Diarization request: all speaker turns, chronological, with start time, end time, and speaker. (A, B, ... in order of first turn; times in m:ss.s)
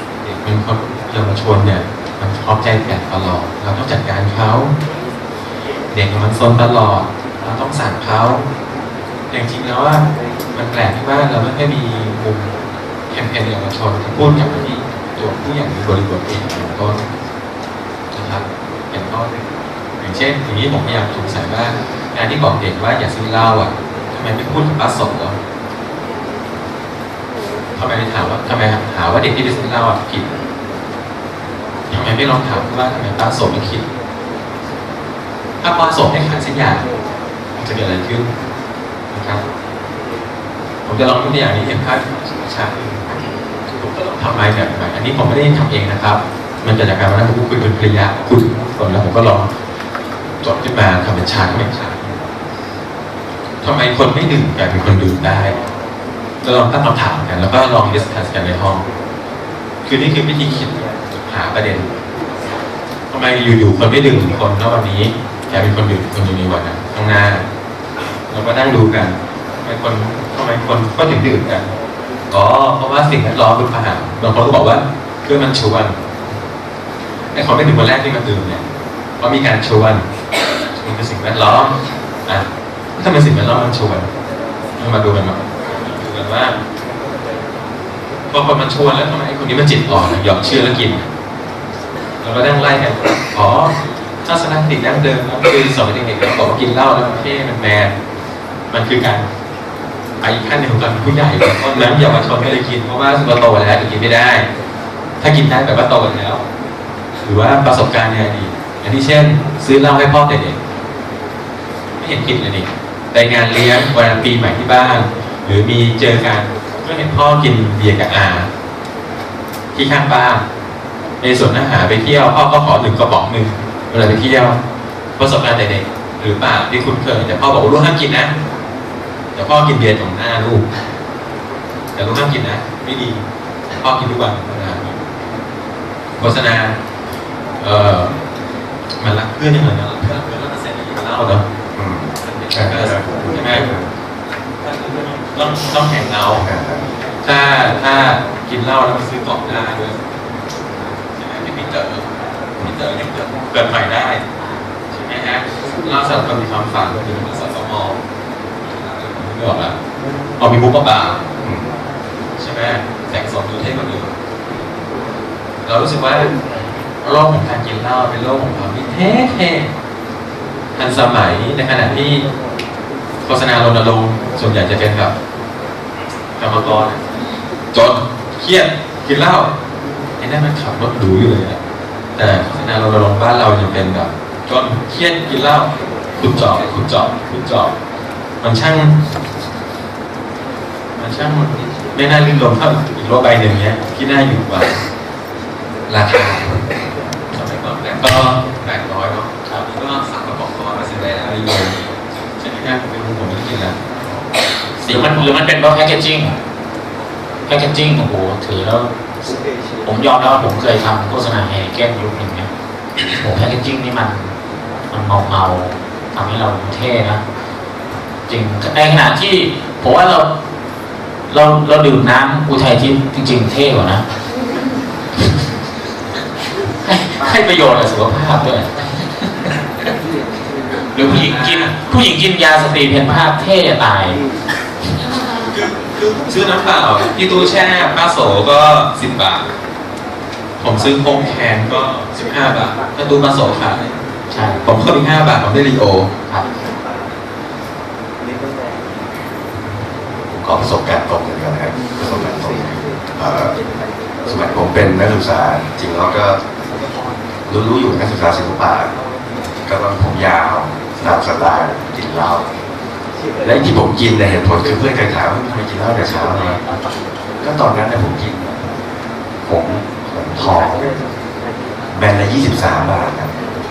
0:00.2-0:04.7 A
0:05.9-0:08.4 A
0:09.3-0:12.5 A
0:13.1-0:17.0 A
0:18.1-0:19.3 A
0:20.0-0:25.4 A
0:27.8-0:30.3 A
0:31.9-0:33.8 A
0:35.6-0:36.9 A
0:37.6-0:38.3 A
0:39.1-0:39.4 A
0:40.8-0:43.2 A
0:43.8-0:49.5 A
0:50.4-0:52.1 A
0:53.6-0:55.6 A
0:56.4-0:58.9 A
0:59.8-1:01.9 A
1:03.1-1:07.4 A
1:08.3-1:11.7 A
1:12.3-1:16.0 A
1:17.3-1:18.6 A
1:19.2-1:20.1 A
1:20.8-1:24.1 A
1:24.8-1:26.6 A
1:28.3-1:31.1 A
1:32.2-1:38.0 A
1:38.7-1:39.3 A
1:40.2-1:44.5 A
1:45.2-1:46.4 A
1:47.2-1:50.6 A
1:52.0-1:58.5 A
1:59.8-2:00.4 A
2:01.2-2:04.6 A
2:05.2-2:08.3 A
2:09.4-2:10.6 A
2:12.0-2:13.2 A
2:13.8-2:15.0 A
2:16.2-2:16.8 A
2:17.6-2:18.1 A
2:19.0-2:21.4 A
2:21.8-2:23.9 B
2:22.2-2:23.7 A
2:24.6-2:26.5 A
2:26.4-2:26.9 B
2:27.2-2:30.0 A
2:31.2-2:32.1 A
2:32.6-2:34.2 A
2:34.9-2:38.0 A
2:38.6-2:39.7 A
2:40.4-2:41.2 A
2:41.4-2:41.7 B
2:42.4-2:44.1 A
2:45.6-2:46.3 A
2:47.0-2:49.7 A
2:50.8-2:52.3 A
2:53.3-2:55.1 A
2:56.4-2:57.0 A
2:57.7-2:59.5 A
3:00.2-3:01.6 A
3:02.2-3:07.7 A
3:08.4-3:09.0 A
3:11.0-3:14.8 A
3:15.9-3:16.6 A
3:17.3-3:23.8 A
3:24.8-3:25.3 A
3:24.9-3:26.4 C
3:27.5-3:28.9 C
3:29.8-3:32.5 C
3:33.2-3:34.3 C
3:34.9-3:37.2 C
3:38.3-3:40.3 C
3:41.3-3:44.0 C
3:46.8-3:48.9 C
3:50.9-3:54.2 C
3:51.0-3:51.8 A
3:55.5-3:59.5 A
4:00.6-4:03.9 A
4:04.3-4:04.6 C
4:04.6-4:06.1 A
4:10.3-4:13.6 B
4:14.3-4:16.4 B
4:17.5-4:18.9 B
4:19.7-4:22.4 B
4:23.4-4:26.6 B
4:27.4-4:28.7 B
4:29.4-4:30.9 B
4:31.9-4:33.3 B